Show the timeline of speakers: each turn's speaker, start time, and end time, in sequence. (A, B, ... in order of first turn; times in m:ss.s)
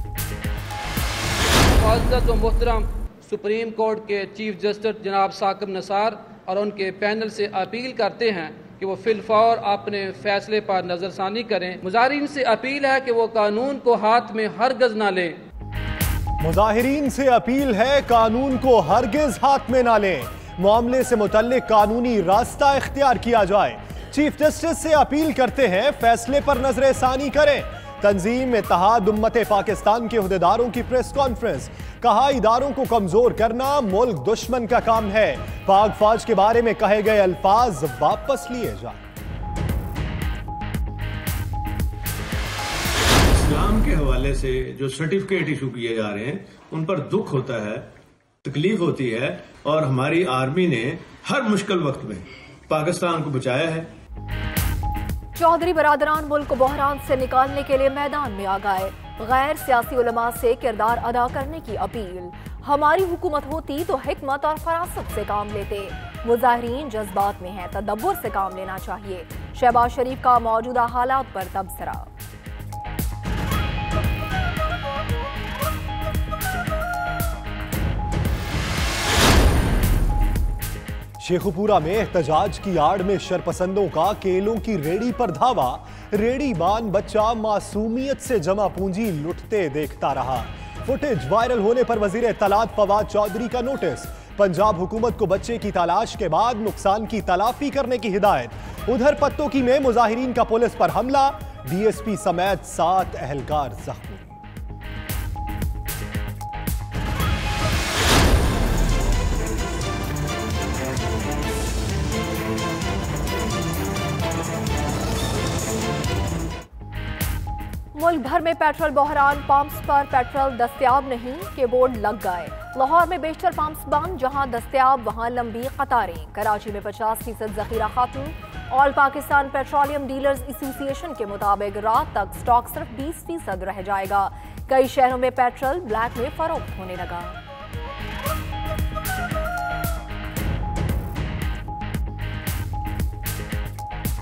0:01.6-0:15.4 A
0:16.4-0:39.0 B
0:43.3-0:47.8 C
0:48.4-0:53.9 C
0:55.3-1:12.1 D
1:21.2-1:44.4 B
1:57.9-2:17.4 D